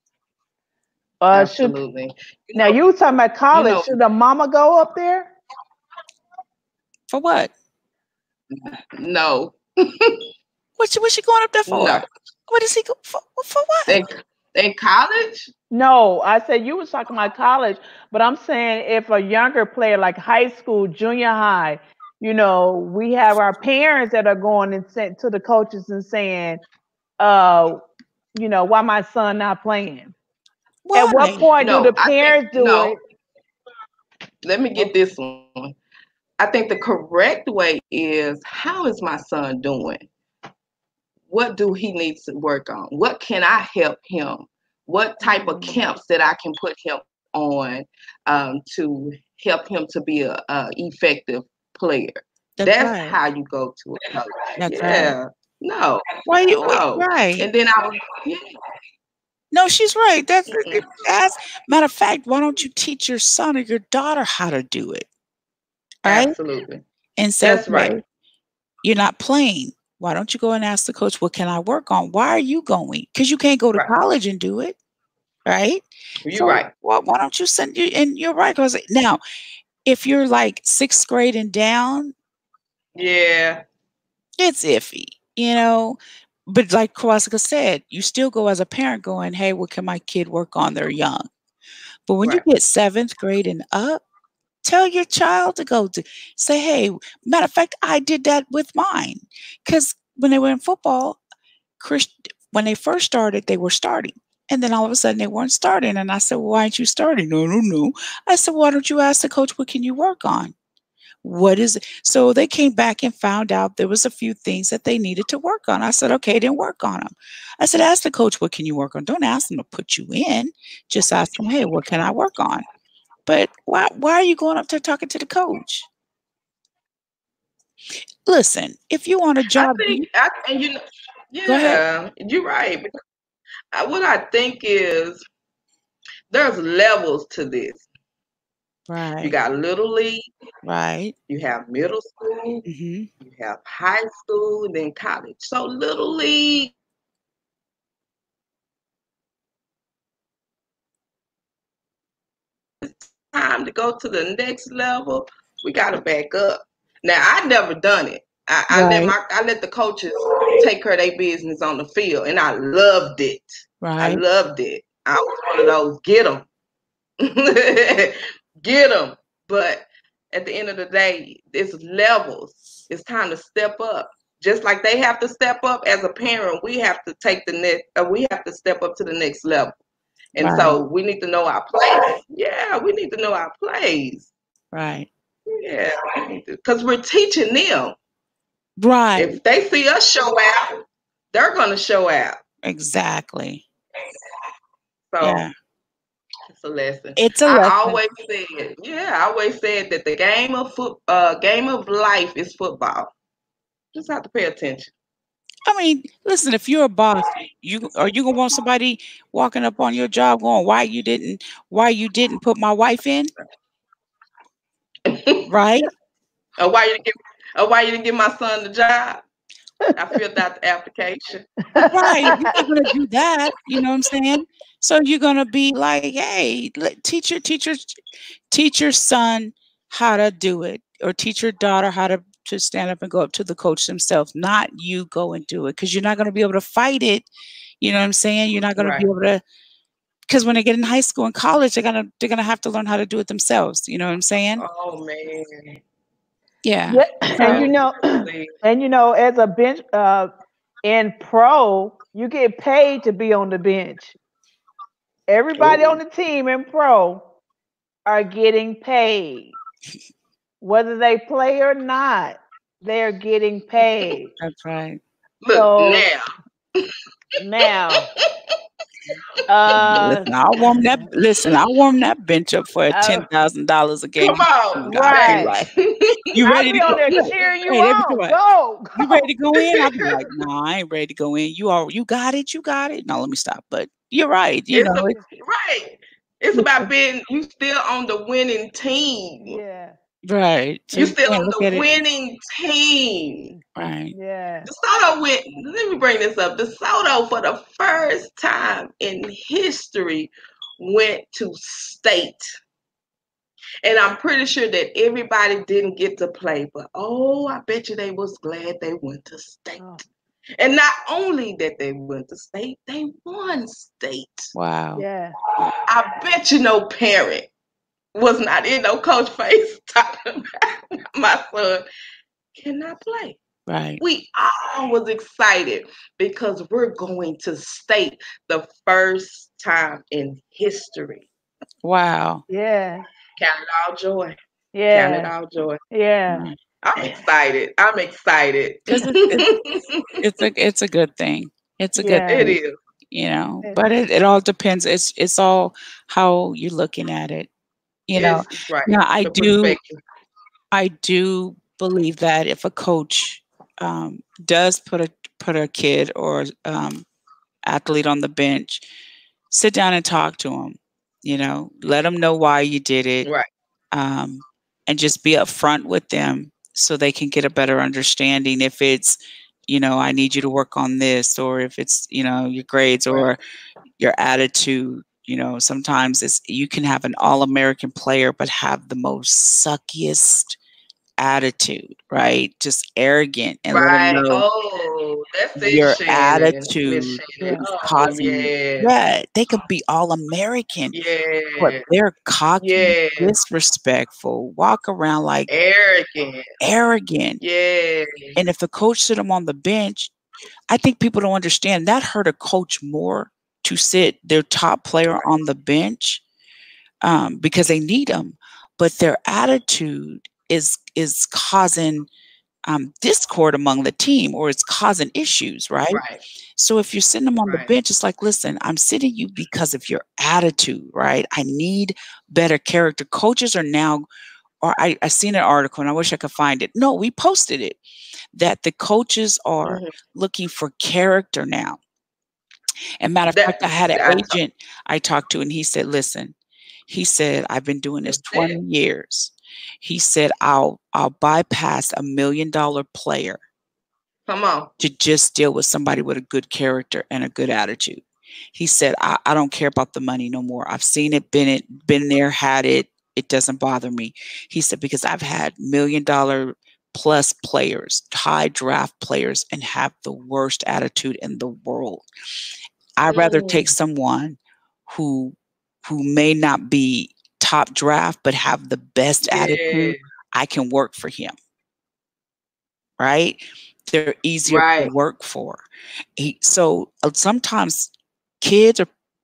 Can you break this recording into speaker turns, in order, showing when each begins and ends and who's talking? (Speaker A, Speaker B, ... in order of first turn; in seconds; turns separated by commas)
Speaker A: 1.2-1.8, Speaker B: 1.3-2.8, Speaker A: 2.5-5.3, Speaker B: 3.5-4.0, Speaker C: 7.1-7.5, Speaker B: 8.5-10.3, Speaker C: 10.8-14.0, Speaker B: 11.7-12.1, Speaker B: 13.9-15.5, Speaker A: 15.7-26.6, Speaker A: 27.2-30.1, Speaker C: 30.8-31.5, Speaker A: 30.9-33.0, Speaker B: 31.6-33.0, Speaker B: 34.4-35.8, Speaker B: 36.4-40.1, Speaker B: 41.3-58.6, Speaker A: 45.2-45.8, Speaker C: 52.6-53.2, Speaker C: 54.6-55.1, Speaker C: 56.2-57.5, Speaker C: 59.5-65.1, Speaker B: 60.5-60.8, Speaker C: 66.0-66.3, Speaker B: 66.0-66.8, Speaker C: 67.2-68.0, Speaker B: 67.4-68.0, Speaker C: 68.8-74.8, Speaker C: 75.5-79.2, Speaker B: 76.2-76.7, Speaker C: 79.8-82.1, Speaker B: 83.0-83.6, Speaker C: 84.4-91.3, Speaker C: 92.1-94.0, Speaker C: 94.6-101.2, Speaker C: 101.8-110.5, Speaker C: 111.2-122.6, Speaker C: 123.2-125.9, Speaker C: 128.2-130.0, Speaker B: 129.5-132.9, Speaker C: 131.4-131.8, Speaker B: 133.7-135.2, Speaker B: 136.3-137.8, Speaker C: 138.9-139.3, Speaker B: 139.2-140.3, Speaker C: 140.6-141.1, Speaker B: 141.3-142.7, Speaker C: 142.7-143.1, Speaker B: 143.2-146.7, Speaker B: 152.8-163.5, Speaker C: 158.7-159.1, Speaker C: 163.8-164.2, Speaker B: 164.0-166.5, Speaker B: 167.2-179.8, Speaker B: 180.3-184.3, Speaker C: 180.4-180.8, Speaker C: 184.7-185.1, Speaker B: 185.5-188.0, Speaker C: 188.8-189.4, Speaker B: 189.2-190.8, Speaker B: 191.3-192.4, Speaker C: 192.6-193.6, Speaker B: 195.1-195.4, Speaker C: 195.2-195.5, Speaker B: 196.5-203.1, Speaker C: 197.2-198.0, Speaker B: 203.9-204.9, Speaker C: 205.7-213.3, Speaker B: 215.1-215.5, Speaker C: 215.5-215.9, Speaker B: 216.6-219.2, Speaker B: 219.9-221.5, Speaker A: 221.7-222.5, Speaker C: 221.8-237.3, Speaker C: 237.8-239.4, Speaker B: 238.8-239.1, Speaker C: 240.3-244.7, Speaker B: 244.6-245.8, Speaker C: 246.6-247.7, Speaker A: 246.9-250.3, Speaker B: 247.4-248.5, Speaker A: 250.8-254.2, Speaker A: 255.3-257.3, Speaker B: 255.6-256.0, Speaker A: 258.1-259.5, Speaker A: 260.6-264.3, Speaker C: 264.4-265.0, Speaker B: 265.4-266.9, Speaker A: 265.5-266.1, Speaker A: 267.4-268.1, Speaker B: 267.9-268.5, Speaker A: 269.5-270.3, Speaker B: 269.7-270.1, Speaker C: 269.8-275.7, Speaker A: 270.8-271.1, Speaker A: 272.9-273.2, Speaker B: 274.2-276.2, Speaker A: 274.8-275.5, Speaker C: 276.3-278.4, Speaker A: 276.4-279.2, Speaker B: 276.8-277.6, Speaker C: 278.9-285.2, Speaker B: 279.5-280.2, Speaker B: 284.7-289.6, Speaker A: 289.4-290.0, Speaker C: 290.2-291.9, Speaker B: 290.9-293.6, Speaker C: 293.7-294.1, Speaker A: 294.1-294.7, Speaker B: 294.6-302.4, Speaker B: 303.8-309.8, Speaker A: 309.8-310.0, Speaker B: 310.6-314.5, Speaker C: 314.5-315.0, Speaker A: 315.0-315.3, Speaker B: 315.9-317.5, Speaker B: 318.1-321.8, Speaker B: 322.6-323.4, Speaker C: 323.7-324.0, Speaker B: 324.0-331.3, Speaker C: 331.8-332.4, Speaker A: 332.5-333.1, Speaker B: 333.4-334.4, Speaker A: 334.7-335.3, Speaker B: 334.9-335.8, Speaker A: 335.9-336.5, Speaker C: 336.3-336.6, Speaker B: 336.8-340.2, Speaker C: 338.9-339.5, Speaker C: 340.2-342.5, Speaker A: 342.0-342.6, Speaker B: 342.2-342.8, Speaker C: 343.1-347.5, Speaker C: 348.1-349.8, Speaker B: 348.1-350.0, Speaker C: 350.7-357.1, Speaker C: 357.6-358.8, Speaker C: 359.5-363.3, Speaker B: 363.2-363.5, Speaker C: 363.9-369.2, Speaker C: 369.7-373.4, Speaker C: 374.0-380.6, Speaker C: 381.2-384.4, Speaker B: 383.7-388.9, Speaker C: 385.6-390.9, Speaker B: 390.9-391.8, Speaker C: 391.6-395.5, Speaker B: 392.6-393.3, Speaker B: 395.5-396.5, Speaker C: 396.6-397.4, Speaker B: 397.4-398.4, Speaker C: 398.4-400.1, Speaker C: 400.7-406.2, Speaker C: 407.0-412.1, Speaker C: 412.6-416.0, Speaker B: 415.9-416.2, Speaker C: 416.6-424.1, Speaker B: 417.4-417.7, Speaker C: 424.6-427.8, Speaker C: 428.3-431.8, Speaker B: 429.6-429.9, Speaker C: 433.0-436.3, Speaker B: 433.3-434.4, Speaker C: 436.9-443.4, Speaker B: 438.1-438.6, Speaker B: 444.3-444.7, Speaker C: 444.8-462.1, Speaker C: 463.0-471.3, Speaker B: 463.1-463.7, Speaker B: 469.3-470.0, Speaker C: 473.0-475.6, Speaker B: 474.5-474.9, Speaker C: 476.1-478.9